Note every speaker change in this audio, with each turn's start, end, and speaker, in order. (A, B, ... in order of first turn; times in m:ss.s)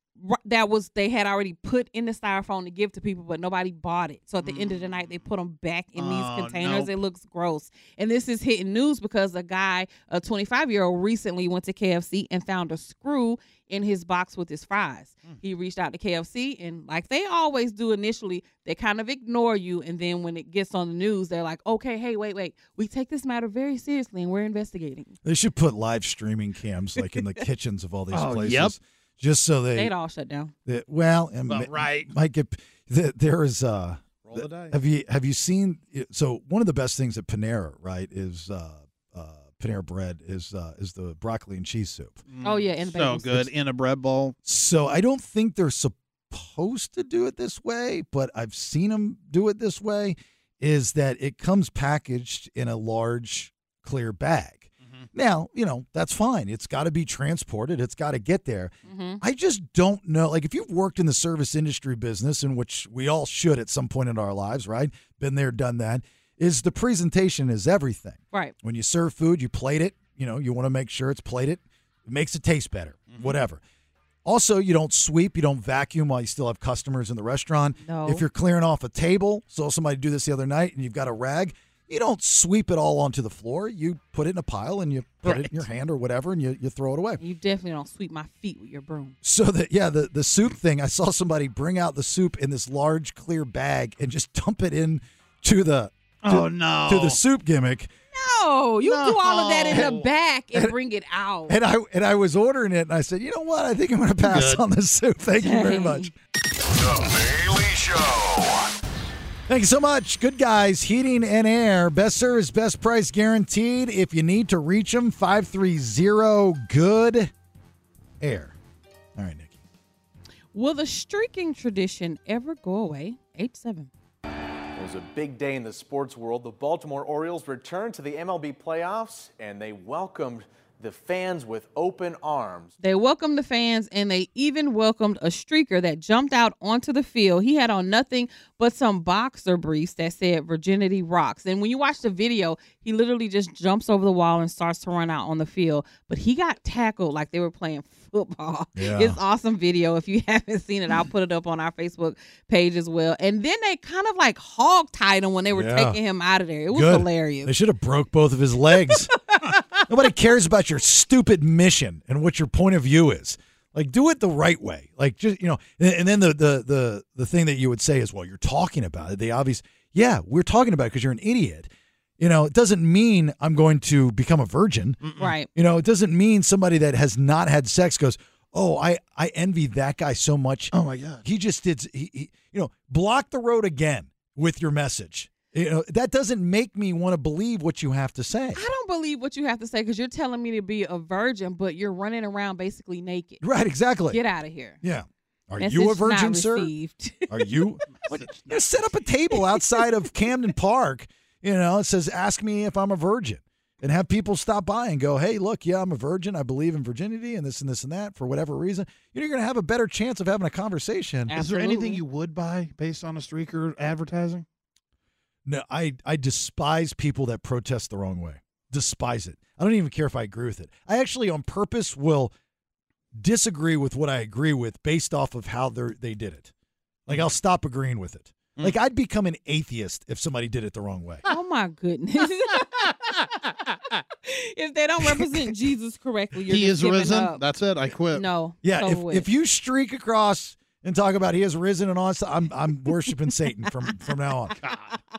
0:00.2-0:25.2 A
0:04.4-0:05.2 B
0:06.0-0:06.9 B
0:25.2-0:29.9 C
0:28.1-0:28.7 B
0:29.7-0:30.5 A
0:30.6-0:42.2 C
0:31.5-0:32.1 B
0:34.2-0:34.8 B
0:42.3-0:44.4 B
0:42.4-0:43.5 A
0:44.4-1:13.6 C
0:58.9-0:59.2 A
1:14.2-1:27.2 C
1:17.8-1:18.2 A
1:25.2-1:25.5 B
1:27.2-1:29.1 A
1:29.2-1:37.9 C
1:36.2-1:37.2 B
1:38.1-1:41.6 A
1:38.8-1:40.1 B
1:39.7-1:40.0 C
1:41.5-1:46.1 C
1:44.2-1:44.6 B
1:45.4-1:46.1 A
1:46.7-1:48.7 D
1:49.5-1:57.3 C
1:58.2-1:58.6 C
1:59.2-1:59.6 C
2:00.5-2:03.9 A
2:04.7-2:12.7 E
2:12.8-2:37.5 A
2:28.8-2:29.2 C
2:35.5-2:36.0 C
2:36.7-2:39.2 C
2:38.8-2:39.8 A
2:39.9-3:08.6 C
2:55.0-2:55.3 B
2:55.2-2:55.5 A
3:00.7-3:01.2 B
3:08.5-3:13.4 A
3:13.4-3:14.2 C
3:14.1-3:14.8 A
3:14.8-3:16.7 C
3:15.6-3:17.6 A
3:17.3-3:31.3 C
3:18.0-3:18.9 B
3:19.3-3:19.9 A
3:31.3-3:32.0 A
3:31.4-3:34.4 B
3:35.4-3:42.3 C
3:43.1-3:46.5 C
3:47.1-3:51.2 C
3:51.3-3:52.9 A
3:54.2-3:57.4 A
3:56.5-3:58.2 B
3:58.1-3:59.3 A
3:58.6-4:04.6 C
4:04.6-4:05.0 B